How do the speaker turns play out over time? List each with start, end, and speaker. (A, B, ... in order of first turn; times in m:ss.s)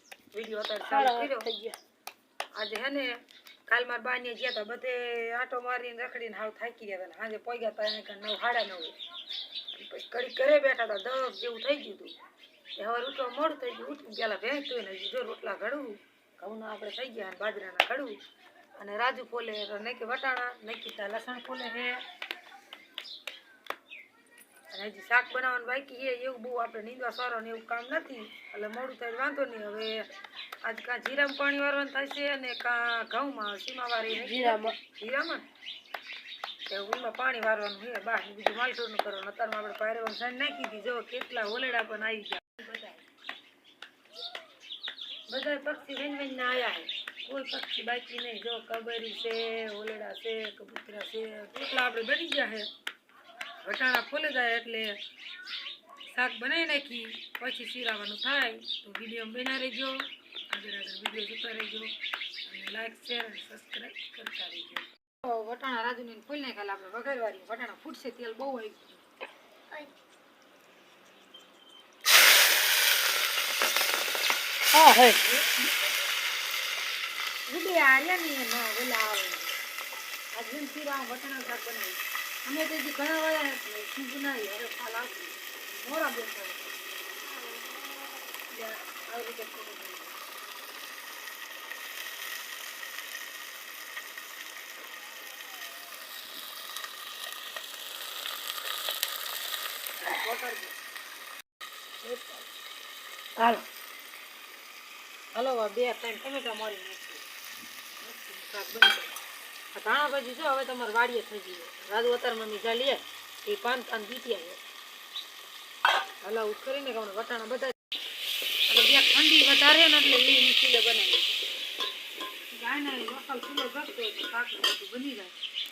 0:00.3-0:01.5 A
0:00.8-0:01.8 B
0:02.5-0:09.0 A
0:09.7-0:12.1 A
0:12.7-0:18.2 A
0:18.8-0:22.0 A
0:24.7-0:30.1 A
0:30.6-0:35.4 A
0:34.1-0:34.8 B
0:36.7-0:43.0 A
0:45.3-0:52.7 A
0:53.6-0:55.0 A
0:56.1-1:09.0 A
1:14.7-1:15.2 B
1:17.5-1:19.6 A
1:20.3-1:26.8 A
1:28.5-1:30.2 A
1:40.0-1:40.8 A
1:42.0-1:42.5 A
1:43.4-1:43.7 B
1:45.3-1:47.2 A
1:48.0-1:49.1 A
1:49.7-1:54.6 A
1:56.2-1:57.8 A
1:58.7-2:01.4 A
2:02.6-2:05.3 A